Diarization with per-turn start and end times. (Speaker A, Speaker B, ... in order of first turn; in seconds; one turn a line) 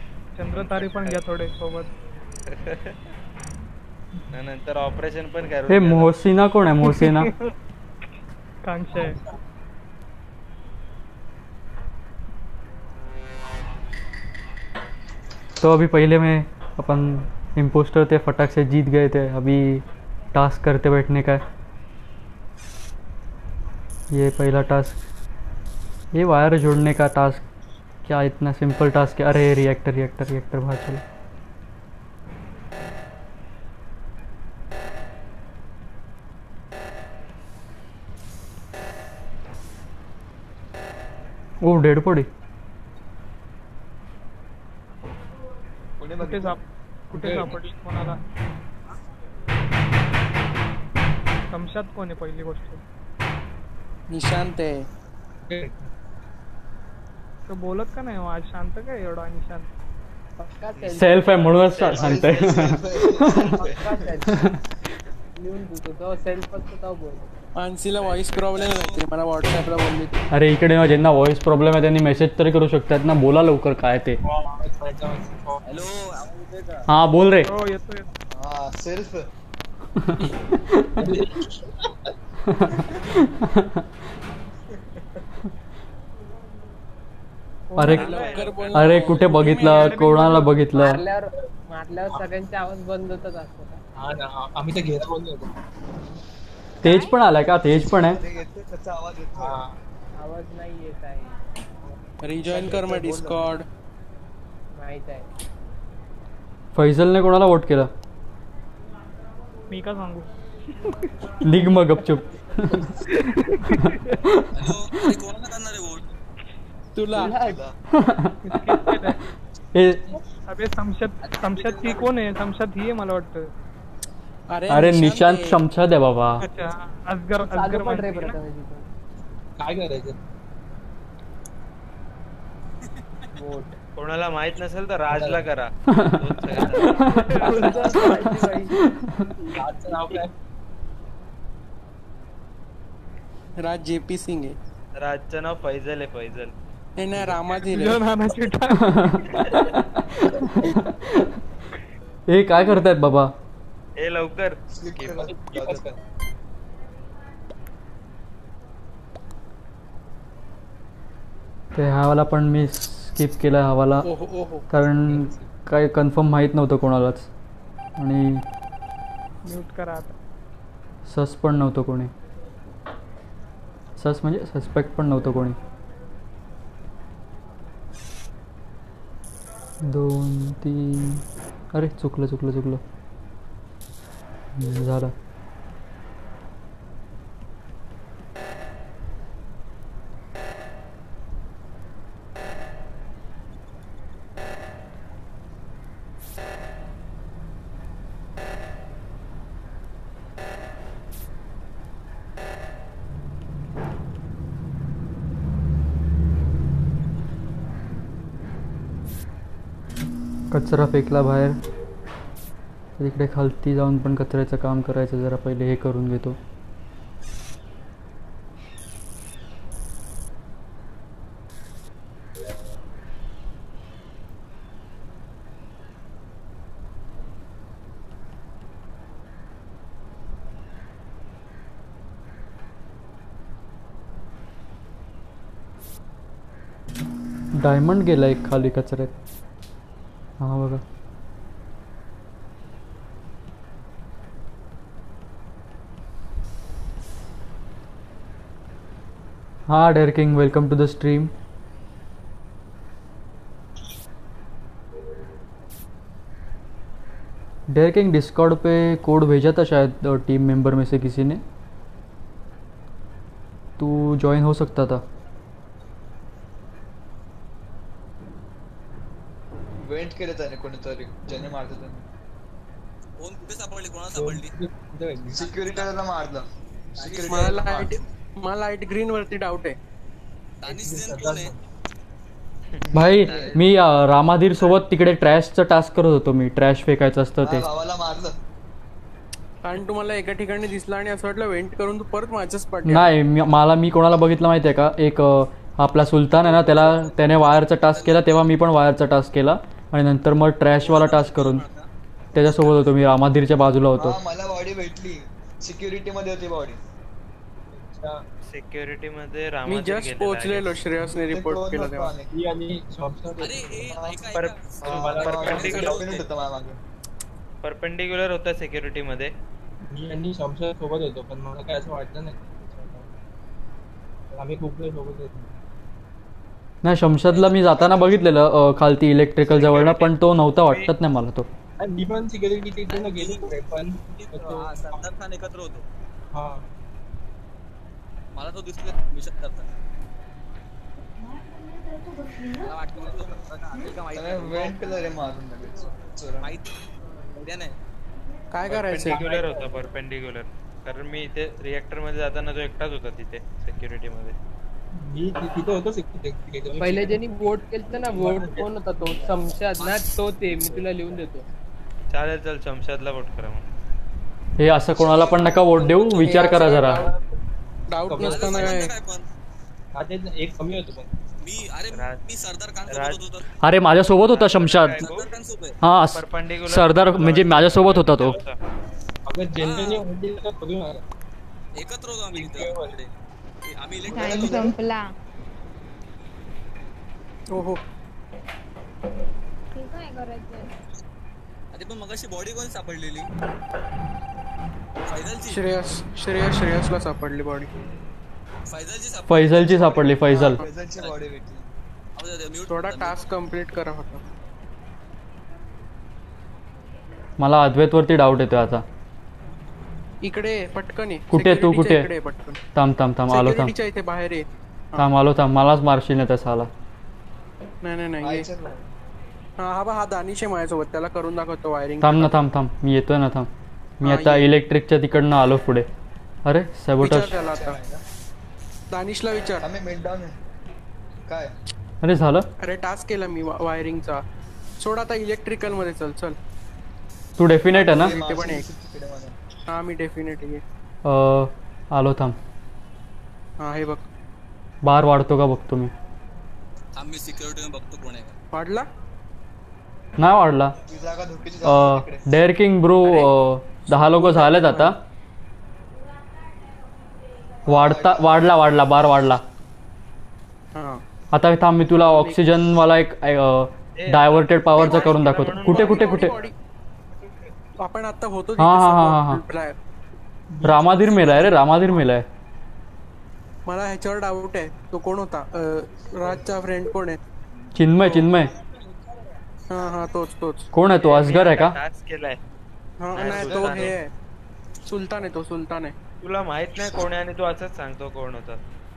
Speaker A: 0.3-1.9
Speaker B: 0.5-1.2
Speaker B: 2.5-3.0
Speaker B: 4.3-6.1
Speaker C: 5.7-7.3
Speaker A: 6.9-7.5
Speaker A: 8.6-9.2
Speaker D: 8.9-9.2
Speaker C: 15.6-21.4
Speaker C: 24.1-25.0
Speaker C: 26.1-27.4
Speaker C: 28.0-31.0
Speaker C: 41.6-42.3
Speaker E: 46.0-46.6
Speaker A: 46.2-48.2
Speaker E: 47.2-47.5
Speaker A: 51.5-52.8
Speaker F: 54.1-54.9
Speaker D: 55.5-55.9
Speaker A: 57.5-59.7
Speaker G: 60.4-61.6
Speaker B: 60.8-62.8
Speaker C: 60.9-63.6
Speaker E: 61.8-64.1
Speaker G: 63.2-64.5
Speaker C: 64.3-64.6
Speaker G: 65.4-67.3
Speaker F: 67.5-70.2
Speaker H: 68.0-69.0
Speaker C: 70.3-74.2
Speaker D: 74.2-75.8
Speaker H: 75.6-76.9
Speaker C: 76.9-77.5
Speaker A: 77.5-78.1
Speaker E: 78.3-79.3
Speaker C: 80.0-81.1
Speaker D: 81.0-81.9
Speaker C: 82.5-83.8
Speaker A: 87.7-88.5
Speaker C: 87.8-88.2
Speaker B: 87.9-89.3
Speaker F: 87.9-90.1
Speaker C: 88.7-91.0
Speaker A: 89.4-90.5
Speaker G: 90.7-93.8
Speaker D: 94.0-95.5
Speaker I: 96.8-97.2
Speaker C: 96.8-98.2
Speaker E: 97.9-99.6
Speaker D: 99.3-99.8
Speaker G: 100.2-101.3
Speaker F: 102.2-103.6
Speaker E: 102.5-103.5
Speaker G: 104.7-105.3
Speaker C: 106.7-107.9
Speaker A: 109.7-110.3
Speaker C: 111.4-112.9
Speaker A: 113.6-114.2
Speaker C: 113.7-114.7
Speaker H: 114.5-116.1
Speaker F: 117.0-117.4
Speaker G: 117.1-117.6
Speaker E: 117.1-117.8
Speaker C: 117.9-119.1
Speaker A: 118.5-119.2
Speaker C: 119.7-120.0
Speaker A: 120.5-123.5
Speaker H: 121.2-121.9
Speaker F: 124.5-125.6
Speaker C: 124.7-126.4
Speaker A: 126.4-128.3
Speaker G: 127.4-128.9
Speaker D: 129.6-130.2
Speaker G: 133.3-133.8
Speaker B: 133.9-137.1
Speaker D: 135.1-135.4
Speaker C: 135.9-138.2
Speaker G: 136.9-138.8
Speaker A: 137.3-137.6
Speaker D: 139.5-140.3
Speaker F: 143.6-144.6
Speaker B: 144.9-146.5
Speaker F: 147.0-148.0
Speaker A: 147.7-149.7
Speaker C: 148.7-151.3
Speaker C: 152.3-153.3
Speaker B: 154.0-155.3
Speaker E: 154.7-155.9
Speaker D: 155.2-156.0
Speaker C: 161.7-164.1
Speaker F: 164.0-164.6
Speaker C: 164.7-167.3
Speaker D: 165.1-165.4
Speaker C: 168.0-168.4
Speaker A: 169.4-170.1
Speaker C: 171.1-172.1
Speaker C: 174.0-175.6
Speaker C: 179.8-182.8
Speaker C: 184.6-185.1
Speaker C: 210.5-211.6
Speaker C: 213.0-216.4
Speaker C: 237.5-239.1
Speaker C: 240.4-240.8
Speaker C: 249.7-251.3
Speaker C: 257.7-261.4
Speaker C: 263.8-265.0
Speaker E: 269.8-272.1
Speaker H: 273.2-274.5
Speaker D: 274.1-275.5
Speaker E: 275.3-277.9
Speaker H: 275.4-275.9
Speaker D: 277.0-277.2
Speaker H: 277.0-277.9
Speaker F: 277.3-279.8
Speaker H: 280.6-281.5
Speaker D: 280.6-281.6
Speaker E: 282.9-283.6
Speaker C: 282.9-287.6
Speaker H: 283.1-283.5
Speaker E: 287.4-288.4
Speaker F: 289.6-293.1
Speaker C: 292.9-301.6
Speaker H: 297.2-298.5
Speaker H: 300.8-301.9
Speaker C: 302.3-304.2
Speaker E: 304.0-306.8
Speaker D: 307.7-308.2
Speaker B: 308.5-310.7
Speaker F: 309.6-312.1
Speaker E: 311.2-312.3
Speaker D: 312.3-313.9
Speaker H: 313.4-316.2
Speaker E: 313.7-314.2
Speaker D: 314.8-316.1
Speaker E: 314.8-316.8
Speaker B: 315.2-316.1
Speaker B: 317.6-319.3
Speaker D: 319.9-323.1
Speaker D: 324.3-325.5
Speaker C: 326.8-331.5
Speaker E: 327.4-328.2
Speaker B: 329.5-330.9
Speaker D: 331.8-335.1
Speaker H: 332.9-333.5
Speaker H: 334.2-335.8
Speaker D: 336.3-336.6
Speaker H: 338.3-339.7
Speaker H: 342.6-344.8
Speaker E: 344.1-346.5
Speaker H: 346.4-346.7
Speaker H: 347.4-347.7
Speaker F: 348.5-349.2
Speaker B: 348.6-354.3
Speaker D: 349.1-349.7
Speaker D: 355.0-357.3
Speaker G: 356.7-361.4
Speaker D: 358.1-358.6
Speaker B: 362.1-363.6
Speaker C: 364.6-367.1
Speaker D: 365.8-367.3
Speaker F: 366.2-367.1
Speaker F: 367.9-368.9
Speaker D: 368.0-368.8
Speaker H: 368.2-369.2
Speaker D: 369.9-371.1
Speaker H: 371.4-373.4
Speaker B: 371.9-372.2
Speaker B: 372.9-373.2
Speaker C: 373.6-375.0
Speaker B: 374.3-375.3
Speaker H: 375.0-375.8
Speaker C: 375.8-378.4
Speaker B: 376.1-378.6
Speaker D: 379.2-381.0
Speaker H: 379.6-380.0
Speaker H: 381.8-383.1
Speaker D: 382.3-383.0
Speaker H: 383.7-384.7
Speaker I: 384.1-385.1
Speaker E: 384.1-384.7
Speaker F: 387.5-387.8
Speaker I: 389.7-390.7
Speaker H: 391.7-393.3
Speaker H: 395.1-395.6
Speaker F: 395.5-397.7
Speaker H: 398.7-399.8
Speaker C: 399.3-400.6
Speaker E: 399.5-401.7
Speaker H: 402.2-403.3
Speaker F: 402.7-404.2
Speaker C: 407.4-408.8
Speaker F: 410.2-412.6
Speaker C: 411.3-412.1
Speaker C: 412.7-413.7
Speaker F: 413.3-415.1
Speaker C: 415.0-416.7
Speaker F: 417.8-418.5
Speaker E: 418.2-418.9
Speaker F: 419.6-422.4
Speaker C: 422.0-423.5
Speaker C: 424.0-425.9
Speaker F: 424.0-424.5
Speaker C: 426.4-427.3
Speaker F: 427.0-427.8
Speaker E: 427.1-428.0
Speaker F: 428.9-429.7
Speaker E: 429.6-430.4
Speaker E: 431.2-431.5
Speaker C: 432.0-432.4
Speaker F: 432.6-434.2
Speaker F: 434.8-436.4
Speaker C: 437.4-438.2
Speaker E: 437.7-439.4
Speaker F: 437.9-438.7
Speaker F: 439.7-440.6
Speaker C: 441.0-442.4
Speaker F: 443.6-444.1
Speaker C: 444.8-445.9
Speaker H: 446.9-448.3
Speaker F: 448.5-448.9
Speaker C: 450.2-450.7
Speaker E: 450.9-452.2
Speaker C: 451.6-455.0
Speaker F: 453.0-453.3
Speaker F: 453.9-455.0
Speaker E: 457.7-458.4
Speaker C: 457.7-459.4
Speaker F: 460.7-461.0
Speaker C: 461.3-466.4
Speaker F: 462.0-462.4
Speaker B: 463.9-466.4
Speaker F: 464.8-466.5
Speaker F: 467.8-469.8
Speaker C: 468.6-469.4
Speaker D: 470.5-471.6
Speaker C: 470.6-472.2
Speaker F: 473.6-477.2
Speaker D: 476.3-476.5
Speaker C: 477.7-478.5
Speaker H: 478.2-479.2
Speaker F: 479.7-480.7
Speaker C: 480.7-481.8
Speaker B: 481.0-482.4
Speaker F: 483.0-484.1
Speaker B: 483.1-483.9
Speaker F: 484.8-485.9
Speaker B: 486.2-488.6